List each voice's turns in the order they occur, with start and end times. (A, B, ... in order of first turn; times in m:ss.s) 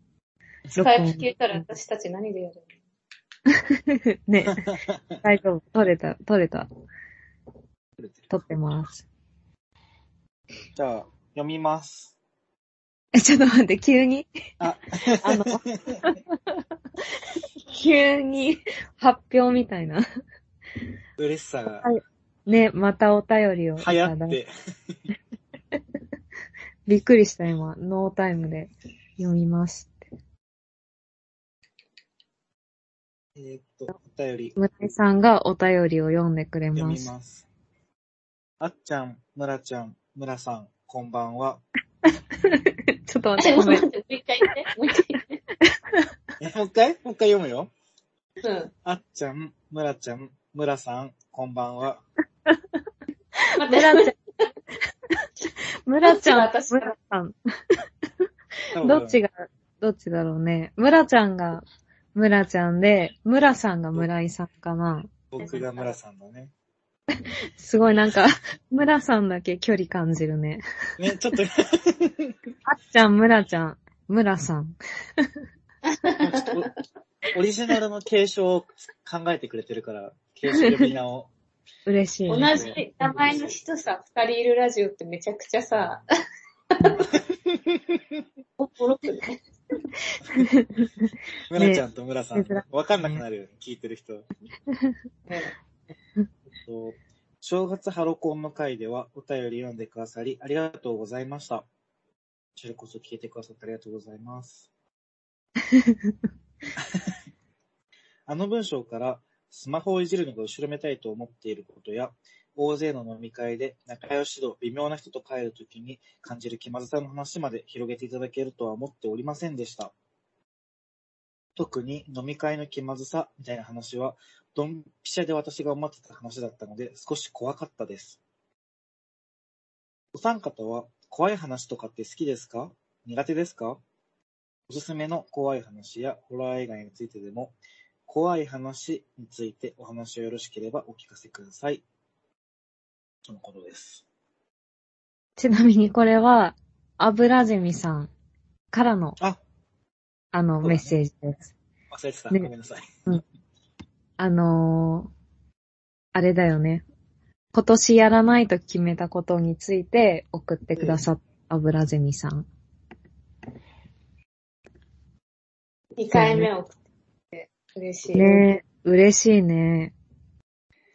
0:00.7-0:01.6 A
0:00.8-0:02.7 B
0:03.5-0:04.6 A
0:04.5-0:05.0 C
0:05.2-0:06.7 A
0:08.0-0:08.2 C
0:08.3-0:09.0 A
0:10.7-0:12.1 C
0:13.1-0:14.2 A
0:14.6-0:16.0 C
0:15.2-0:16.2 A
0:17.7-0:20.0 A
0:21.2-0:21.9 C
0:21.8-0:24.4 A
0:23.8-0:24.5 C
0:26.9-0:29.9 A
0:33.4-0:34.6 C
0:34.6-0:37.1 A
0:36.7-0:37.4 C
0:38.6-0:41.6 C
0:42.3-0:43.9 A
0:43.4-0:45.4 B
0:45.6-0:46.0 A
0:46.4-0:47.7 C
0:48.4-0:48.7 B
0:48.8-0:52.0 C
0:53.5-0:54.1 A
0:53.6-0:54.5 B
0:55.8-0:57.3 A
0:56.0-0:56.9 B
0:58.7-0:59.2 C
0:58.8-1:05.1 A
1:05.3-1:06.5 C
1:07.6-1:10.6 A
1:11.0-1:12.3 C
1:12.7-1:15.2 A
1:15.8-1:16.6 B
1:16.2-1:16.7 C
1:17.3-1:21.3 C
1:20.6-1:20.9 A
1:21.8-1:22.8 A
1:22.3-1:26.0 B
1:22.3-1:23.6 C
1:26.8-1:27.0 B
1:27.4-1:28.2 C
1:28.6-1:29.4 B
1:30.3-1:31.8 A
1:31.5-1:34.2 C
1:32.3-1:32.6 A
1:35.3-1:35.5 B
1:36.6-1:41.6 C
1:42.6-1:44.7 C
1:45.7-1:46.1 A
1:46.8-1:47.1 C
1:48.3-1:59.9 C
2:01.6-2:08.2 C
2:10.1-2:13.8 C
2:14.7-2:17.5 C
2:18.1-2:21.8 C
2:23.2-2:24.0 C
2:25.4-2:28.1 A
2:28.7-2:29.2 A
2:30.3-2:31.5 A
2:30.6-2:30.9 C
2:31.9-2:32.9 C
2:34.2-2:35.1 A
2:36.1-2:36.8 A
2:37.5-2:42.4 A
2:40.8-2:41.0 C
2:46.0-2:46.8 B
2:46.1-2:46.5 A
2:47.3-2:48.4 B
2:48.1-2:49.9 A